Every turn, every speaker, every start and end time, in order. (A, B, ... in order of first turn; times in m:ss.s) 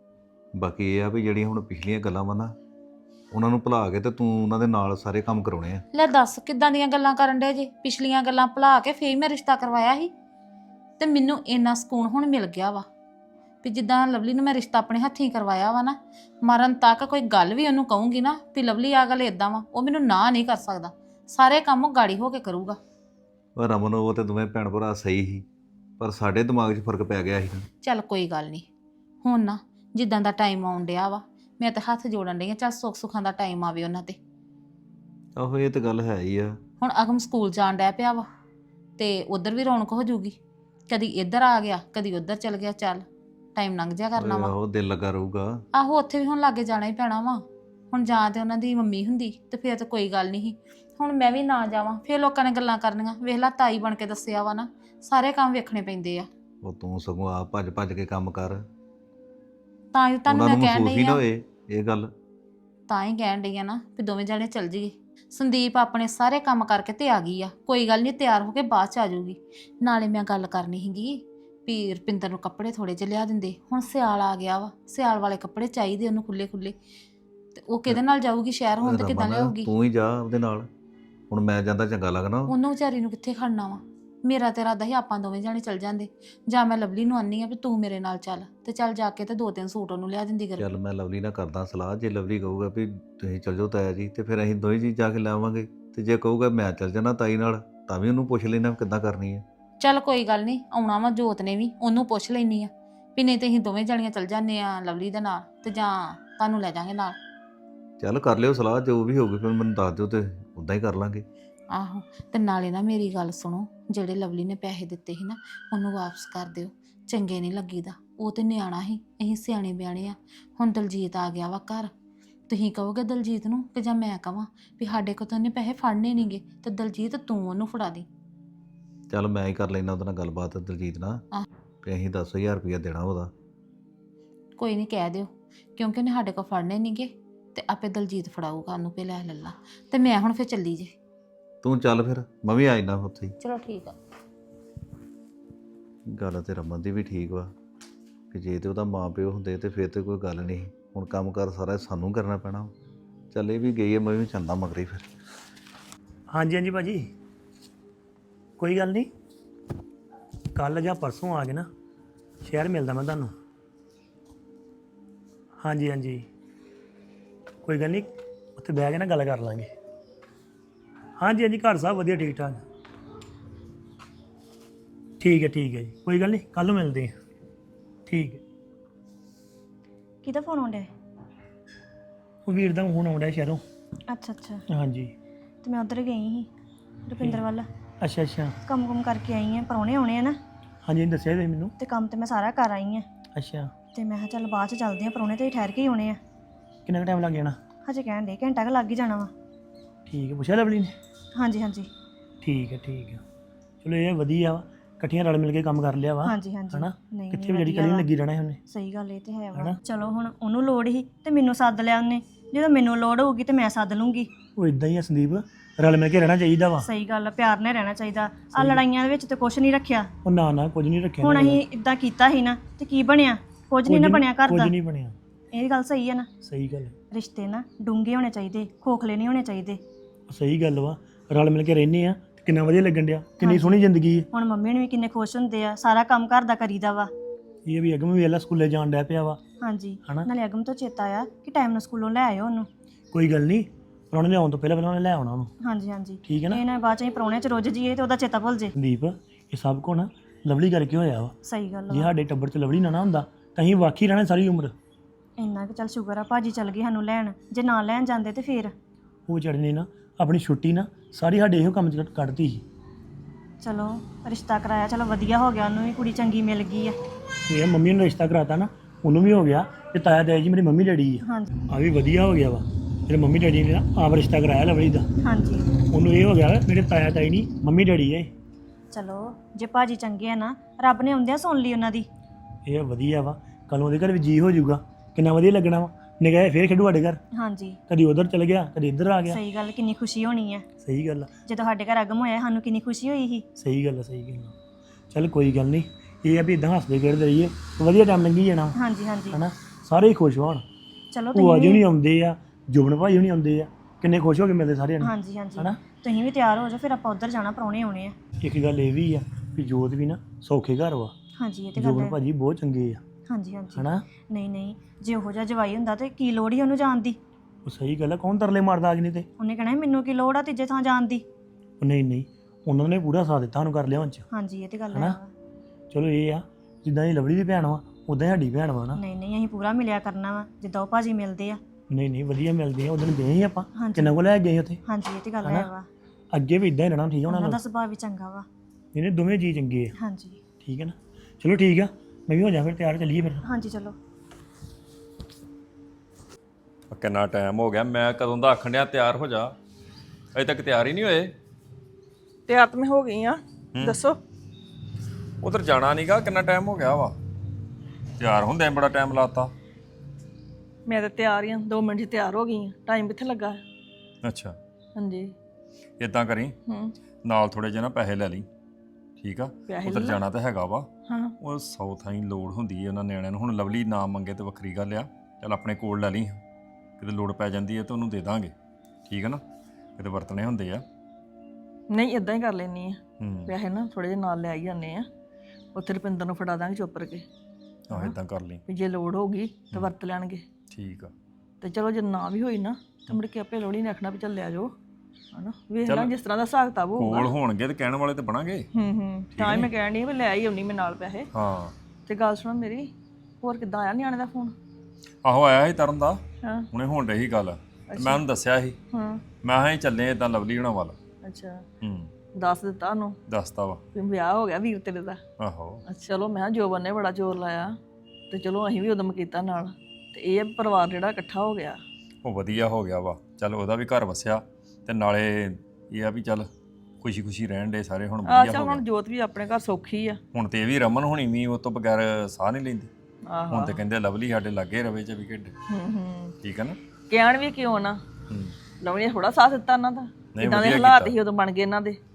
0:00.6-0:02.5 A
0:03.3-0:05.8 A
0:05.9-0:10.1 B
0:11.0-0:12.8 B
0:13.6-0:22.8 B
0:23.6-0:25.4 A
0:26.0-0:27.7 A
0:27.8-0:28.6 B
0:29.2-0:34.2 B
0:35.4-0:36.6 A
0:36.8-0:38.2 B
0:39.0-0:40.4 B
0:40.9-0:44.5 B
0:44.2-0:45.6 A
0:45.8-0:56.3 B
0:56.6-0:58.7 A
0:59.9-1:01.2 B
1:00.3-1:02.1 A
1:02.9-1:16.8 B
1:17.5-1:19.7 B
1:18.8-1:20.7 A
1:21.3-1:22.5 A
1:22.5-1:30.7 B
1:30.6-1:39.4 A
1:39.8-1:47.2 B
1:48.0-1:51.2 A
1:51.7-2:01.9 B
2:02.5-2:08.1 B
2:09.1-2:11.2 A
2:11.8-2:13.3 A
2:14.6-2:20.9 B
2:21.6-2:23.3 A
2:23.4-2:24.0 B
2:26.1-2:27.5 A
2:28.3-2:32.7 A
2:33.3-2:35.0 A
2:36.3-2:37.1 C
2:38.6-2:39.1 C
2:40.6-2:41.7 C
2:42.4-2:43.3 C
2:45.6-2:46.3 C
2:47.6-2:49.7 C
2:51.2-2:52.6 C
2:55.2-2:57.1 C
2:58.1-2:58.4 C
3:00.2-3:00.9 D
3:02.4-3:03.6 C
3:04.1-3:04.6 D
3:04.7-3:05.1 C
3:05.6-3:06.5 D
3:07.0-3:07.7 D
3:08.0-3:08.6 C
3:08.7-3:10.4 D
3:10.8-3:11.7 C
3:11.8-3:13.1 D
3:13.4-3:13.7 C
3:14.0-3:16.2 D
3:16.9-3:17.6 C
3:17.9-3:19.3 D
3:20.1-3:20.9 C
3:21.4-3:21.9 D
3:22.4-3:23.2 C
3:23.8-3:28.6 C
3:26.2-3:28.1 D
3:28.7-3:34.3 D
3:34.6-3:36.9 C
3:36.8-3:40.1 D
3:38.6-3:38.8 C
3:40.2-3:41.6 C
3:41.2-3:44.8 D
3:43.9-3:45.2 C
3:45.5-3:46.3 D
3:46.4-3:47.0 C
3:47.1-3:49.8 D
3:50.3-3:54.3 C
3:53.4-3:57.1 D
3:57.7-3:59.4 C
3:59.6-4:02.7 D
4:03.1-4:05.5 C
4:05.6-4:08.7 D
4:06.3-4:06.6 C
4:08.8-4:11.3 C
4:11.5-4:12.2 D
4:11.9-4:14.7 C
4:15.4-4:18.7 D
4:19.3-4:22.6 C
4:23.6-4:27.0 D
4:27.5-4:35.1 C
4:31.2-4:31.5 D
4:35.2-4:35.7 D
4:35.9-4:38.3 C
4:38.9-4:42.1 D
4:42.7-4:47.2 C
4:47.4-4:47.8 D
4:47.9-4:49.4 C
4:49.2-4:50.7 D
4:50.8-4:51.3 C
4:51.5-4:53.4 D
4:53.6-4:54.5 C
4:55.1-4:58.8 C
4:58.8-4:59.4 D
4:59.3-5:00.6 C
5:01.1-5:01.9 D
5:01.3-5:05.8 C
5:05.0-5:08.2 D
5:08.4-5:11.1 C
5:11.4-5:12.2 D
5:11.8-5:13.0 C
5:13.3-5:17.2 D
5:13.8-5:14.0 C
5:17.7-5:19.3 C
5:19.4-5:21.2 D
5:21.8-5:24.2 C
5:24.3-5:25.3 D
5:24.9-5:25.2 C
5:25.9-5:29.0 C
5:29.0-5:31.6 D
5:31.9-5:34.8 C
5:33.8-5:34.2 D
5:34.8-5:35.9 D
5:35.4-5:35.7 C
5:36.3-5:37.6 C
5:37.3-5:38.4 D
5:38.9-5:39.9 C
5:40.0-5:40.4 D
5:40.6-5:43.4 C
5:43.4-5:44.0 D
5:46.9-5:49.6 E
5:50.4-5:51.3 E
5:52.5-5:54.2 F
5:53.8-5:54.0 E
5:55.4-5:57.2 E
5:58.2-5:59.5 E
6:00.9-6:03.6 F
6:04.2-6:04.6 E
6:05.0-6:05.3 F
6:06.0-6:06.5 E
6:06.7-6:07.0 F
6:07.2-6:08.5 E
6:09.2-6:10.9 E
6:09.7-6:10.2 F
6:11.1-6:11.4 F
6:11.4-6:16.4 E
6:17.0-6:18.5 E
6:19.1-6:19.4 E
6:20.0-6:20.8 E
6:21.9-6:25.1 F
6:23.2-6:23.5 E
6:25.7-6:27.2 F
6:27.9-6:28.6 E
6:28.7-6:30.4 F
6:30.7-6:31.1 E
6:31.6-6:34.7 F
6:35.3-6:37.3 F
6:35.8-6:36.1 E
6:37.0-6:38.6 E
6:38.7-6:41.3 F
6:39.3-6:39.7 E
6:41.3-6:41.7 E
6:42.1-6:42.9 F
6:43.4-6:44.6 F
6:45.2-6:46.2 E
6:46.4-6:46.7 F
6:46.7-6:48.8 E
6:47.9-6:48.2 F
6:48.9-6:49.2 F
6:49.4-6:51.0 E
6:51.2-6:51.6 F
6:51.8-6:52.1 E
6:52.3-6:53.2 F
6:53.3-6:53.8 E
6:53.9-6:55.2 F
6:55.4-6:55.8 E
6:55.9-6:57.8 F
6:58.3-7:01.8 F
7:02.2-7:06.5 E
7:07.0-7:08.8 E
7:08.2-7:10.2 F
7:10.3-7:12.9 E
7:13.3-7:13.8 F
7:13.5-7:15.5 E
7:15.7-7:16.4 F
7:16.4-7:16.8 E
7:17.1-7:18.0 F
7:18.3-7:18.6 E
7:18.8-7:22.0 F
7:20.3-7:21.2 E